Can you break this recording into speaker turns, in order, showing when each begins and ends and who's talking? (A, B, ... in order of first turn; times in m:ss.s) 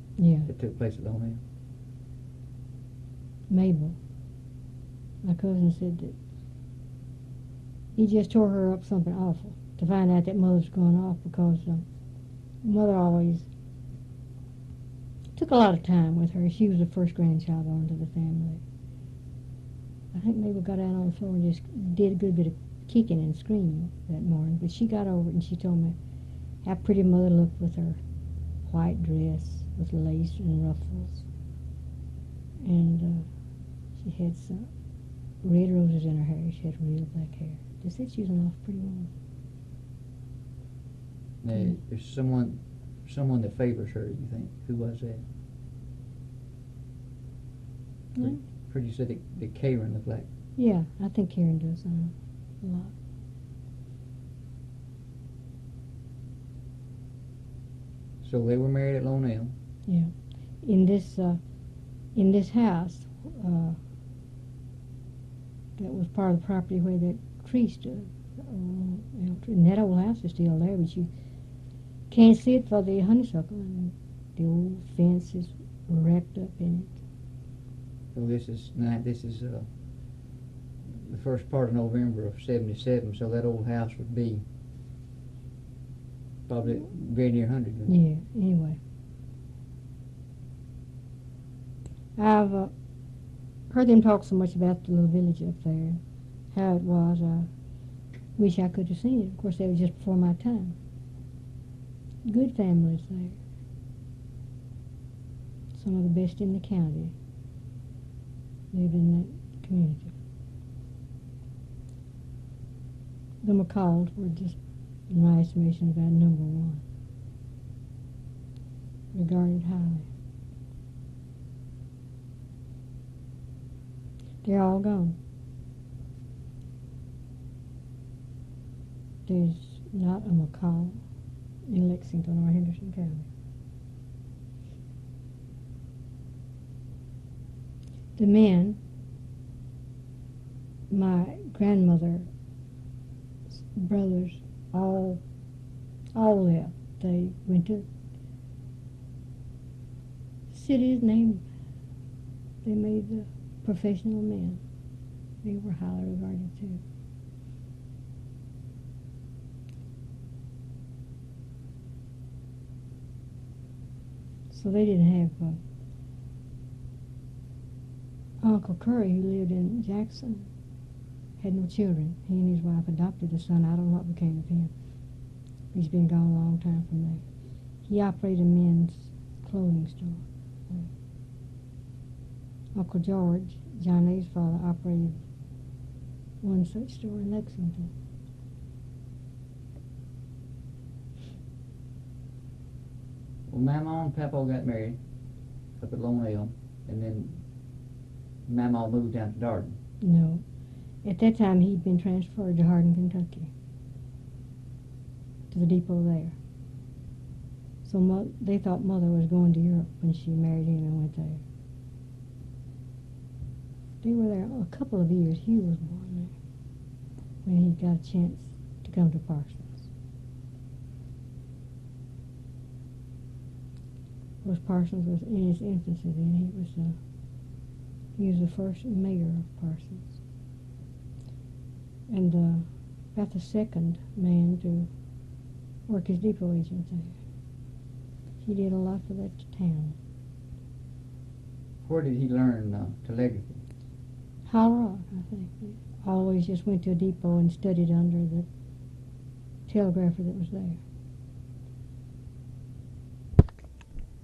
0:00.2-0:00.5 A
0:00.5-0:01.4 B
0:03.5-0:04.0 A
0:05.2-0:06.1 A
0:08.0-0:11.8 A
0:12.6-0:13.5 A
0:15.4-0:18.6 A
0:20.1-0:26.0 A
0:26.6-0:28.0 A
0:28.6-0:31.2 A
0:32.6-0:33.3 A
0:34.0-0:34.7 A
0:35.4-0:39.1 A
0:41.4-0:45.2 B
0:48.1-0:48.4 A
0:48.2-0:50.3 B
0:50.6-0:52.9 A
0:58.2-0:59.5 B
0:59.9-1:01.4 A
1:02.1-1:03.8 A
1:05.8-1:11.1 A
1:12.1-1:17.0 A
1:18.1-1:19.6 B
1:20.9-1:24.4 B
1:26.5-1:27.9 B
1:27.9-1:28.8 A
1:32.2-1:32.7 A
1:33.7-1:36.0 A
1:36.5-1:37.5 A
1:38.4-1:40.7 A
1:42.2-1:43.4 A
1:45.7-1:47.1 A
1:48.7-1:50.1 A
1:53.4-1:54.6 A
1:55.1-1:56.8 A
1:59.1-2:00.1 A
2:04.4-2:05.2 A
2:09.2-2:11.0 A
2:11.7-2:13.3 A
2:18.2-2:18.8 A
2:20.9-2:22.3 A
2:23.5-2:25.2 A
2:26.1-2:27.8 A
2:30.5-2:31.4 A
2:32.6-2:34.6 A
2:35.4-2:36.8 A
2:44.5-2:45.6 A
2:48.4-2:50.5 A
2:51.4-2:54.7 A
2:55.7-2:57.2 A
2:57.8-3:00.9 A
3:02.7-3:05.2 A
3:06.4-3:07.9 A
3:13.5-3:15.0 B
3:15.8-3:17.4 B
3:18.5-3:19.8 B
3:20.0-3:20.4 A
3:21.0-3:23.5 A
3:25.5-3:26.4 A
3:27.8-3:31.4 A
3:34.0-3:36.3 A
3:37.4-3:39.8 A
3:44.4-3:46.9 A
3:48.2-3:50.2 A
3:52.1-3:54.9 A
3:55.9-3:57.1 A
3:58.4-4:00.0 A
4:01.8-4:03.6 B
4:04.5-4:08.4 A
4:09.7-4:10.8 A